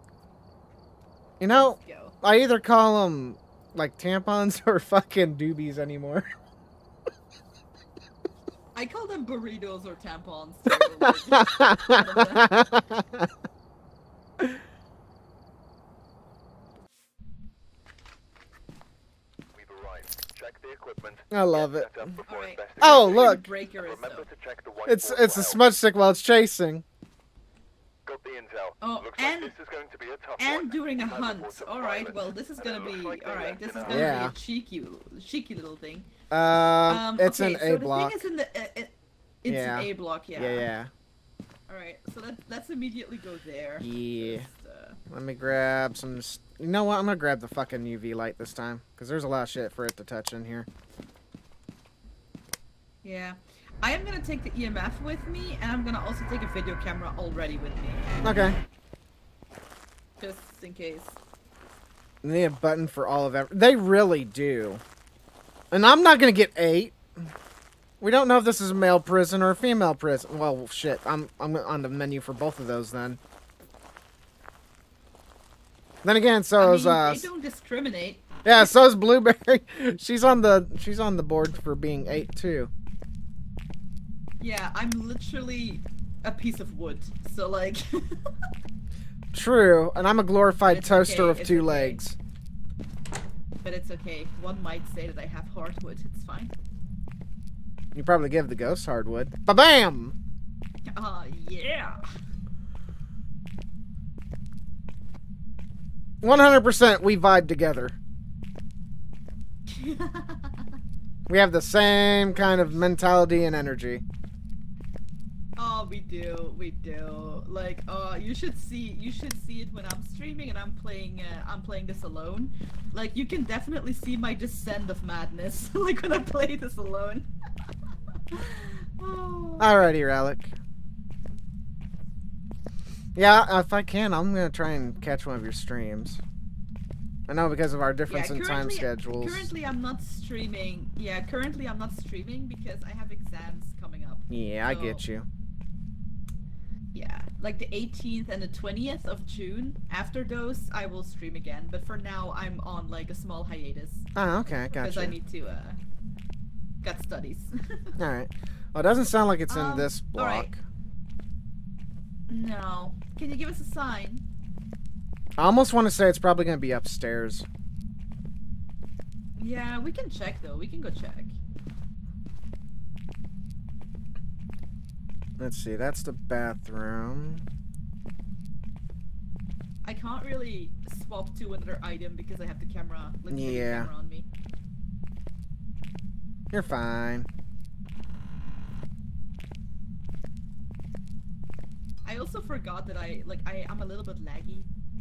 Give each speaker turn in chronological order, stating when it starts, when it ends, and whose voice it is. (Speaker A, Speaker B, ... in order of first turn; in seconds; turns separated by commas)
Speaker A: 1.4-6.3, Speaker B: 1.5-2.1, Speaker B: 8.7-12.5, Speaker A: 11.0-13.3, Speaker C: 19.5-25.7, Speaker A: 21.3-22.1, Speaker B: 22.2-24.3, Speaker A: 22.8-23.4, Speaker A: 24.9-26.8, Speaker C: 28.1-34.3, Speaker B: 28.8-29.5, Speaker B: 30.4-36.1, Speaker A: 33.8-34.3, Speaker A: 36.3-38.2, Speaker B: 36.8-40.7, Speaker A: 39.5-40.9, Speaker B: 41.7-45.0, Speaker A: 43.8-44.5, Speaker A: 45.1-50.7, Speaker B: 53.0-58.0, Speaker A: 58.2-58.5, Speaker B: 60.2-61.2, Speaker A: 62.2-64.8, Speaker A: 65.7-67.3, Speaker A: 68.0-73.2, Speaker A: 76.0-77.3, Speaker B: 76.6-78.7, Speaker A: 78.4-82.7, Speaker B: 84.4-88.2, Speaker A: 89.3-92.2, Speaker B: 90.7-92.0, Speaker B: 93.6-96.5, Speaker A: 97.9-100.1, Speaker B: 100.9-102.0, Speaker A: 106.2-108.0, Speaker B: 109.7-110.7, Speaker A: 111.3-114.0, Speaker B: 115.6-127.3, Speaker B: 128.3-129.8, Speaker A: 129.6-130.6, Speaker A: 133.2-136.2, Speaker A: 137.3-139.5, Speaker B: 138.1-145.0, Speaker A: 144.3-145.3, Speaker B: 146.9-155.8, Speaker A: 154.2-155.2, Speaker B: 156.8-158.0, Speaker A: 158.0-160.6, Speaker B: 159.5-160.5, Speaker B: 162.3-164.2, Speaker A: 165.4-167.4, Speaker B: 169.4-171.3, Speaker A: 175.4-177.4, Speaker B: 179.8-184.2, Speaker A: 183.3-183.9, Speaker A: 186.5-187.3, Speaker B: 192.0-194.7